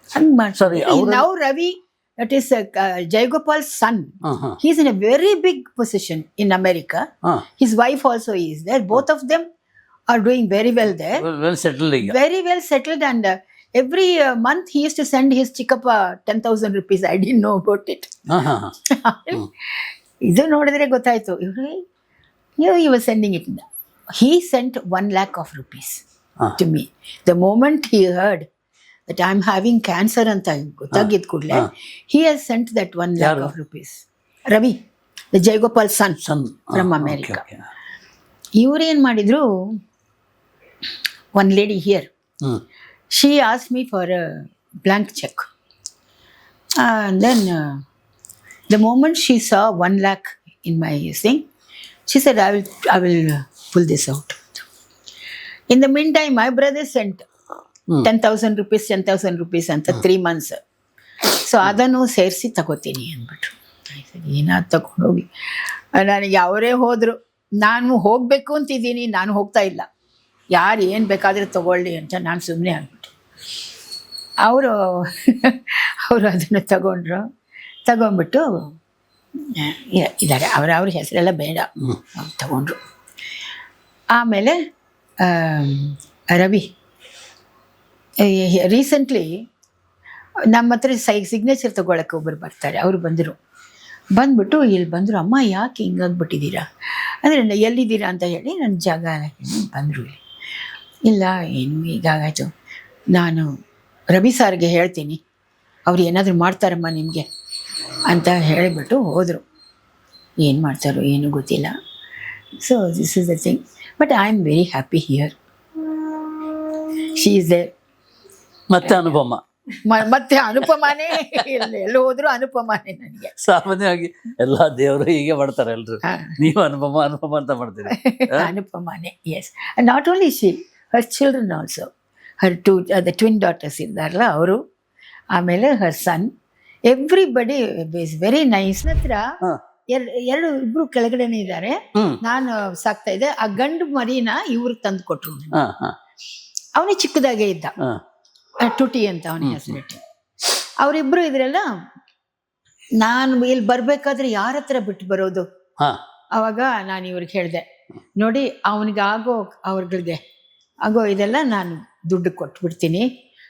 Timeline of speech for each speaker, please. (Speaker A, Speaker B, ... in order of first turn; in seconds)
Speaker A: 0.1-7.1, 7.6-9.5, 10.1-11.2, 12.0-18.1, 18.9-21.8, 22.6-23.6, 24.2-26.0, 26.6-28.5, 29.1-34.8, 35.3-37.4, 38.6-39.5, 41.4-42.1, 43.1-45.5, 46.8-47.8, 48.7-51.5, 52.1-54.7, 55.7-57.2, 58.0-60.6, 61.3-69.9, 70.5-73.1, 74.5-77.2, 77.9-78.7, 79.4-82.8, 84.2-84.6, 85.2-86.7, 88.2-89.3, 90.5-93.4, 94.2-96.7, 97.2-100.2, 101.1-102.5, 103.1-103.5, 104.1-105.2, 105.9-107.3, 108.1-109.4, 110.4-111.7, 112.6-115.4, 117.2-117.7, 119.8-123.3, 126.0-126.4, 127.9-131.9, 132.4-134.6, 135.3-136.3, 136.9-139.2, 139.9-145.6, 146.8-147.8, 148.6-151.7, 153.0-155.5, 156.4-157.7, 158.2-160.2, 160.8-163.1
Speaker B: 0.6-1.2, 4.2-4.6, 11.2-12.2, 18.3-18.7, 31.0-31.7, 33.2-33.5, 36.2-37.6, 118.7-119.4, 123.4-128.5, 145.6-145.9, 149.4-149.8